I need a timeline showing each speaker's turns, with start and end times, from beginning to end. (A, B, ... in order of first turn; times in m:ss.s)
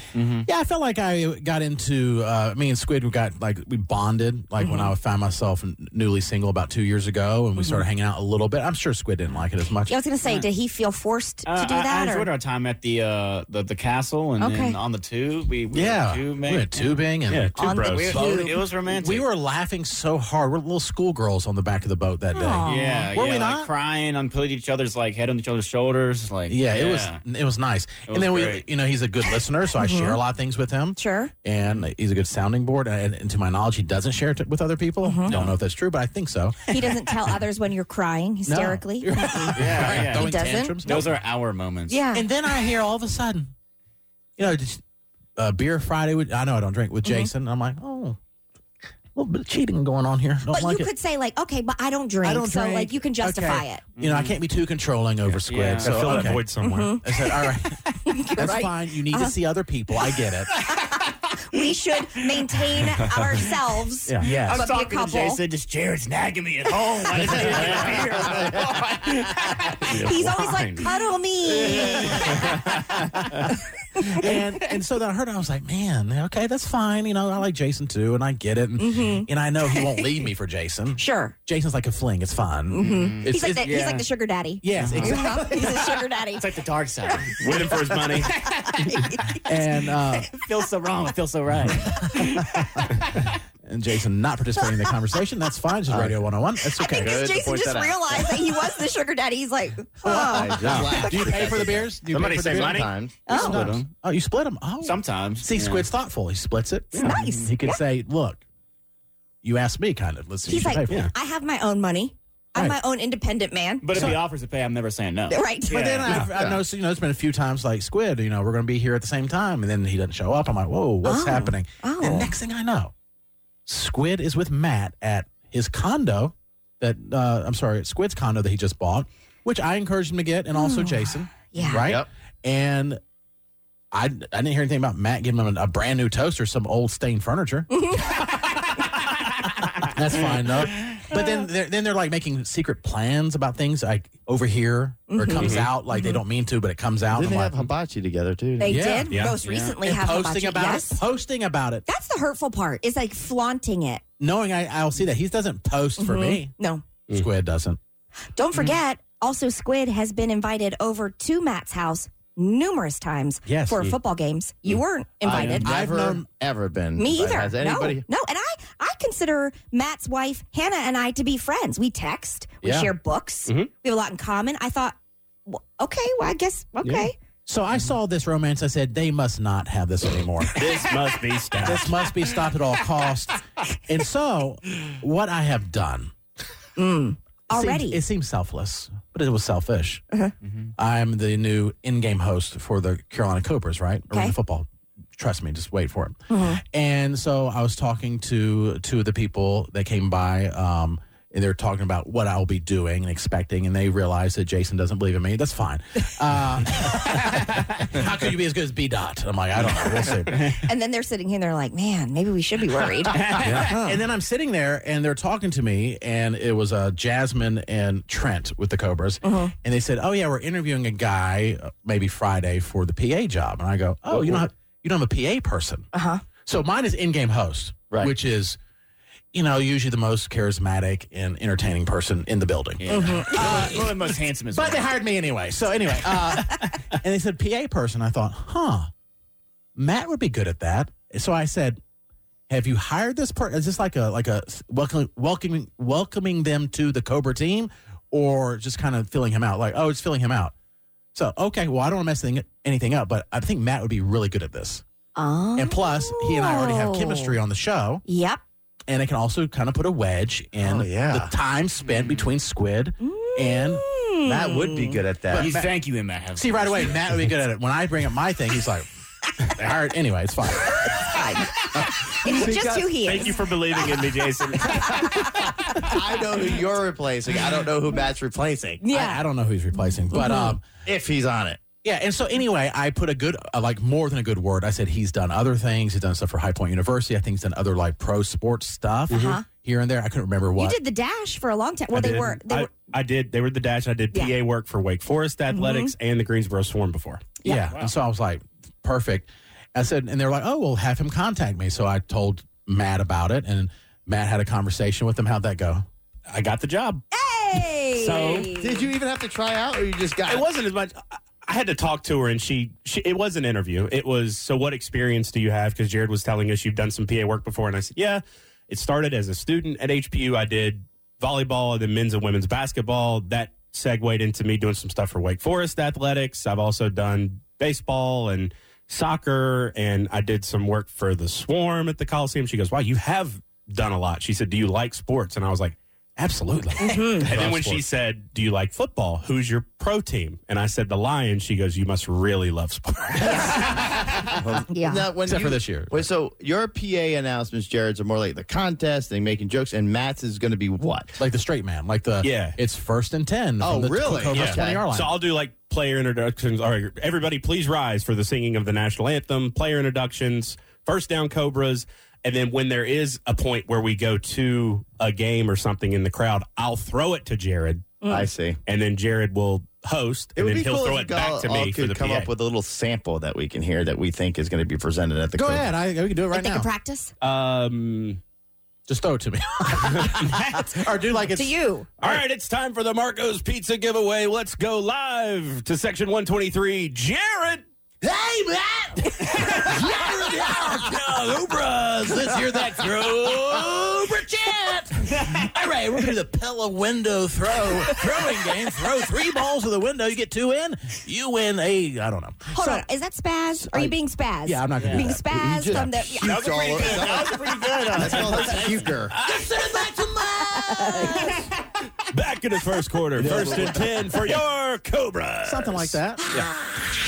0:00.2-0:00.5 A
0:00.4-0:10.0 B
0:04.6-0:04.9 C
0:07.6-0:07.8 C
0:09.9-0:12.3 C
0:10.2-0:10.5 A
0:11.4-0:16.8 A
0:14.4-0:14.8 C
0:15.7-0:23.7 B
0:17.3-0:18.2 D
0:17.6-0:18.6 C
0:17.9-0:19.3 A
0:22.3-0:23.1 C
0:22.6-0:27.2 A
0:26.5-0:37.2 B
0:28.1-0:28.6 A
0:29.8-0:30.2 C
0:31.0-0:31.3 C
0:31.6-0:31.9 A
0:35.0-0:35.4 C
0:35.3-0:35.6 A
0:36.7-0:41.1 C
0:38.5-0:41.2 B
0:39.6-0:42.0 A
0:41.9-0:42.3 C
0:42.1-0:43.5 B
0:44.4-0:44.8 B
0:45.4-0:48.2 B
0:47.0-0:47.3 C
0:49.2-0:50.9 B
0:50.5-0:53.8 C
0:52.2-1:00.5 B
0:54.0-0:54.4 A
0:55.4-0:56.3 A
0:55.8-0:57.0 D
0:56.6-0:59.4 C
1:00.7-1:05.4 C
1:04.1-1:04.7 B
1:04.2-1:10.1 A
1:07.2-1:07.8 B
1:09.8-1:10.9 D
1:10.0-1:12.5 C
1:11.5-1:13.4 A
1:12.8-1:23.9 B
1:18.8-1:20.2 C
1:21.0-1:21.4 C
1:22.7-1:26.5 C
1:22.8-1:24.1 A
1:24.6-1:25.7 B
1:24.8-1:27.6 A
1:27.1-1:27.4 C
1:27.4-1:28.4 D
1:28.2-1:29.0 A
1:28.5-1:30.3 C
1:29.4-1:30.3 B
1:30.3-1:33.3 A
1:31.9-1:32.2 C
1:32.2-1:33.0 B
1:33.6-1:37.3 B
1:34.6-1:34.9 C
1:35.9-1:36.2 E
1:36.8-1:41.4 C
1:36.9-1:38.4 E
1:40.0-1:43.5 E
1:40.0-1:48.4 B
1:40.6-1:41.0 D
1:42.1-1:42.9 D
1:43.3-1:43.7 C
1:43.3-1:43.9 A
1:44.8-1:45.9 A
1:47.0-1:47.8 C
1:47.2-1:47.5 A
1:49.4-1:51.1 B
1:50.5-1:54.1 C
1:53.8-1:56.1 A
1:53.9-1:54.2 B
1:55.3-1:55.8 C
1:55.7-2:02.9 B
1:56.2-1:56.6 E
2:01.0-2:02.3 C
2:03.7-2:13.0 B
2:10.5-2:12.0 C
2:13.9-2:17.7 B
2:17.7-2:18.3 C
2:19.8-2:27.7 B
2:25.1-2:26.2 C
2:25.4-2:25.7 D
2:27.1-2:28.8 E
2:28.6-2:31.0 C
2:28.6-2:31.9 B
2:29.1-2:29.4 D
2:29.4-2:29.8 A
2:31.9-2:34.0 C
2:34.2-2:36.5 B
2:36.0-2:36.8 C
2:37.1-2:37.8 B
2:38.3-2:45.7 C
2:43.5-2:43.8 B
2:45.2-2:48.1 E
2:45.2-2:46.3 B
2:47.0-2:57.2 C
2:52.6-2:52.9 B
2:56.8-2:57.1 D
2:57.5-3:00.8 B
3:00.5-3:02.0 D
3:01.5-3:06.1 B
3:06.8-3:08.0 C
3:07.5-3:10.0 B
3:10.8-3:30.6 B
3:14.1-3:14.4 C
3:16.3-3:16.6 C
3:30.6-3:33.3 C
3:33.2-3:45.9 B
3:33.2-3:33.7 A
3:33.5-3:34.0 E
3:39.2-3:39.5 C
3:45.9-3:46.2 C
3:46.4-3:48.6 B
3:49.3-3:58.9 B
3:52.8-3:54.9 A
3:52.9-3:53.7 C
3:59.8-4:01.8 B
4:02.5-4:10.5 B
4:11.2-4:14.8 B
4:15.2-4:17.4 C
4:15.6-4:18.0 B
4:18.1-4:18.4 C
4:18.9-4:24.0 B
4:20.6-4:21.3 E
4:21.8-4:22.3 A
4:23.0-4:25.0 C
4:24.2-4:25.6 E
4:25.3-4:25.7 B
4:25.4-4:27.3 A
4:26.4-4:28.9 B
4:29.4-4:31.1 B
4:30.8-4:33.9 C
4:31.8-4:33.2 E
4:33.0-4:35.2 D
4:34.6-4:35.8 C
4:35.0-4:38.8 E
4:38.8-4:39.2 C
4:38.9-4:40.6 B
4:40.1-4:40.6 C
4:40.8-4:41.6 E
4:41.8-4:50.8 B
4:49.1-4:49.4 D
4:49.1-4:49.4 C
4:50.6-4:52.7 C
4:51.9-4:57.4 D
4:55.5-4:55.9 C
4:57.4-5:05.8 B
4:57.6-4:57.9 A
5:06.3-5:07.0 D
5:07.1-5:08.8 C
5:08.0-5:08.5 D
5:08.6-5:10.5 E
5:10.3-5:35.8 D
5:36.2-5:37.8 B
5:36.8-5:37.3 C
5:37.2-5:43.8 D
5:43.2-5:43.6 C
5:43.5-5:51.2 E
5:44.7-5:45.1 C
5:45.2-5:46.1 B
5:51.2-5:55.2 B
5:52.2-5:52.6 D
5:53.6-5:54.8 E
5:54.3-6:07.9 D
6:08.0-6:08.3 C
6:08.1-6:08.6 E
6:08.7-6:12.3 D
6:10.4-6:15.7 E
6:15.4-6:16.7 B
6:16.3-6:17.1 C
6:17.2-6:18.2 D
6:18.9-6:22.2 B
6:21.3-6:21.9 C
6:22.0-6:27.6 D
6:28.0-6:42.9 B
6:42.5-6:46.4 C
6:43.6-6:46.2 B
6:44.8-6:45.1 A
6:45.3-6:49.2 E
6:46.2-6:49.0 A
6:49.1-6:49.5 D
6:49.1-6:51.5 B
6:50.4-6:51.4 C
6:52.1-6:56.5 D
6:53.2-6:54.2 E
6:53.2-6:53.5 B
6:55.4-6:56.2 B